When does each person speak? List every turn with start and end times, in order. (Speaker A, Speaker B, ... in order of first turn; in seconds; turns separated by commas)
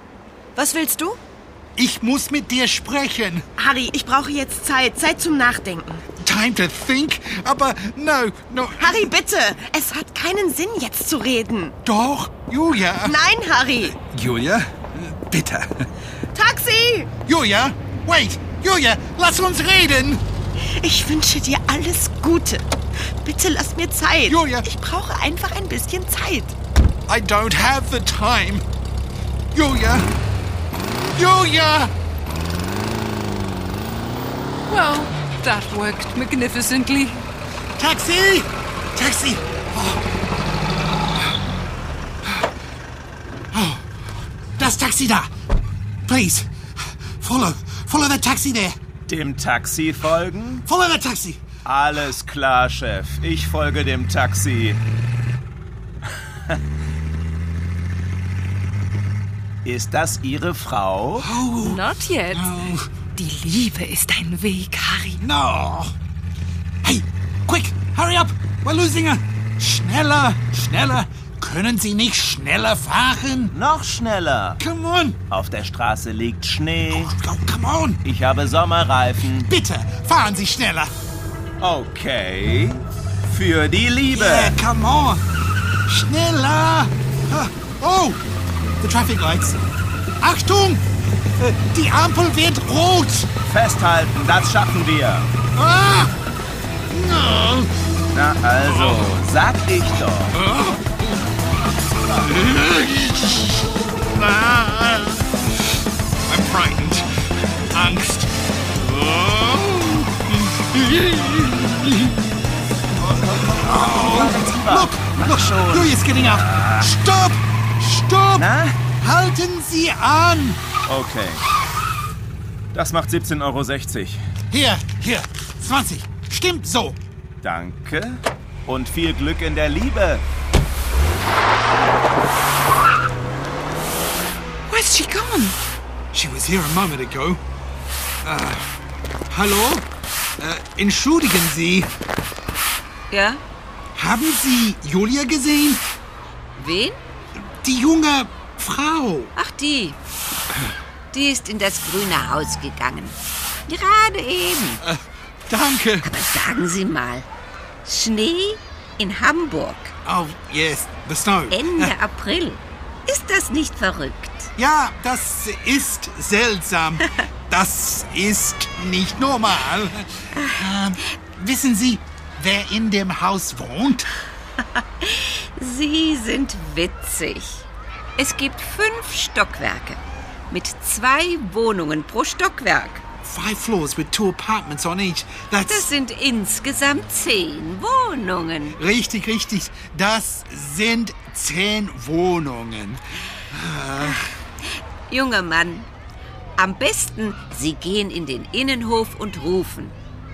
Speaker A: 0.6-1.2, Speaker B: 1.8-3.5, Speaker A: 3.6-6.0, Speaker B: 6.2-9.1, Speaker A: 8.8-11.8, Speaker B: 11.8-13.2, Speaker A: 13.0-14.0, Speaker B: 13.8-15.9, Speaker A: 16.3-17.1, Speaker B: 17.2-20.2, Speaker A: 20.6-26.6, Speaker B: 24.2-24.7, Speaker B: 27.1-28.6, Speaker B: 29.5-30.1, Speaker B: 31.1-31.9, Speaker C: 34.7-37.2, Speaker B: 37.8-40.0, Speaker B: 43.5-43.8, Speaker B: 44.6-45.3, Speaker B: 46.0-48.8, Speaker D: 49.1-50.7, Speaker B: 50.7-51.4, Speaker D: 51.6-54.8, Speaker D: 59.6-61.3, Speaker B: 61.2-62.9, Speaker C: 61.5-65.2, Speaker B: 65.2-66.0, Speaker B: 66.8-73.6, Speaker D: 73.5-74.6, Speaker B: 74.6-75.2, Speaker D: 75.3-77.1, Speaker B: 76.9-78.0, Speaker D: 78.0-79.5, Speaker B: 79.4-80.9, Speaker D: 81.6-84.6, Speaker B: 84.1-85.2, Speaker B: 85.9-88.2, Speaker B: 88.8-89.6, Speaker B: 90.2-90.9, Speaker B: 91.4-93.3, Speaker D: 93.5-95.3, Speaker B: 95.5-96.1, Speaker B: 96.9-97.7, Speaker D: 98.1-100.4, Speaker B: 98.6-99.1, Speaker B: 100.3-101.3, Speaker D: 101.9-102.4, Speaker B: 102.2-105.4, Speaker B: 106.3-112.2, Speaker D: 113.0-117.0, Speaker B: 113.3-120.6, Speaker D: 118.3-118.8, Speaker D: 120.9-121.4, Speaker D: 122.7-124.2, Speaker B: 124.5-127.0, Speaker D: 127.4-130.2, Speaker C: 134.7-135.6, Speaker B: 136.1-137.4, Speaker B: 138.2-138.7, Speaker B: 139.3-139.9, Speaker B: 140.4-141.9, Speaker E: 143.1-143.4, Speaker B: 143.9-145.8, Speaker E: 146.6-147.0, Speaker B: 147.4-149.3, Speaker E: 149.3-150.0, Speaker E: 151.1-154.8, Speaker B: 154.8-156.1, Speaker E: 156.0-157.3, Speaker E: 157.8-159.9, Speaker B: 160.1-161.9, Speaker E: 161.5-164.5, Speaker B: 164.6-174.1, Speaker E: 170.3-170.6, Speaker E: 175.0-177.7, Speaker E: 178.2-183.0, Speaker B: 183.2-185.9, Speaker E: 185.6-188.8, Speaker B: 188.7-194.2, Speaker E: 195.1-195.9, Speaker E: 196.6-200.0